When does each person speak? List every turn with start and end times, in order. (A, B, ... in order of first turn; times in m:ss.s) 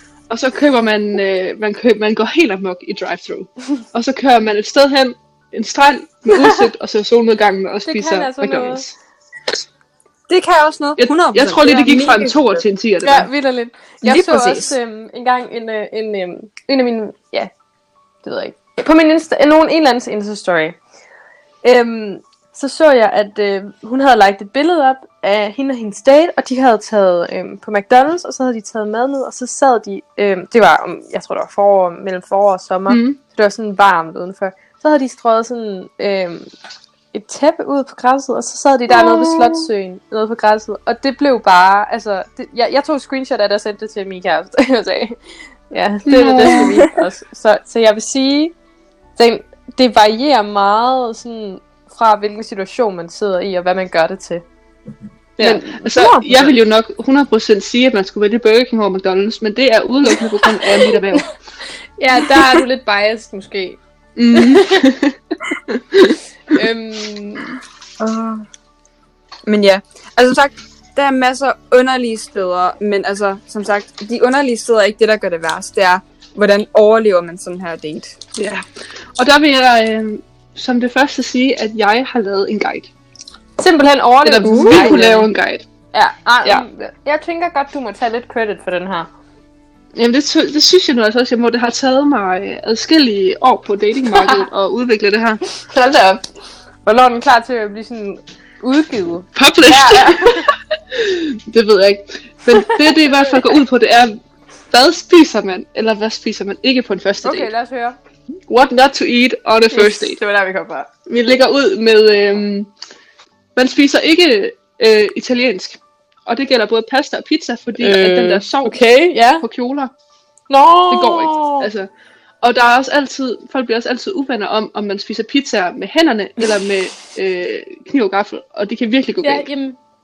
0:00.3-0:08.9 A
0:06.3-0:06.6 B
0:07.8-0:08.8 B
0:10.3-0:12.6 C
0:11.0-0:13.3 A
0:13.0-0:17.5 B
0:14.0-0:14.8 C
0:18.2-0:20.8 B
0:21.6-0:36.5 B
0:32.9-0:33.2 A
0:37.1-0:45.2 B
0:39.0-0:39.6 C
0:45.7-0:48.5 B
0:46.0-0:46.8 A
0:46.4-0:47.0 C
0:49.2-0:54.4 B
0:55.4-1:01.3 A
0:55.4-0:56.5 B
1:00.2-1:00.4 B
1:02.0-1:03.8 B
1:04.2-1:05.2 A
1:04.3-1:04.8 B
1:05.7-1:06.2 A
1:06.5-1:07.6 B
1:08.0-1:08.4 C
1:09.4-1:18.2 C
1:18.4-1:18.6 A
1:19.2-1:22.9 A
1:23.6-1:25.3 B
1:24.2-1:25.6 A
1:24.4-1:25.0 C
1:25.9-1:29.1 B
1:29.9-1:35.4 A
1:34.2-1:34.4 B
1:35.6-1:36.2 B
1:36.8-1:40.5 B
1:39.3-1:44.2 A
1:42.5-1:43.5 B
1:44.7-1:47.5 A
1:47.2-1:48.0 B
1:48.5-1:50.2 A
1:49.7-1:50.9 B
1:51.1-1:52.7 A
1:53.6-1:58.8 A
1:57.8-1:59.4 B
1:59.4-1:59.9 A
2:00.5-2:01.7 B
2:00.9-2:01.9 A
2:02.4-2:09.5 A
2:09.2-2:09.8 B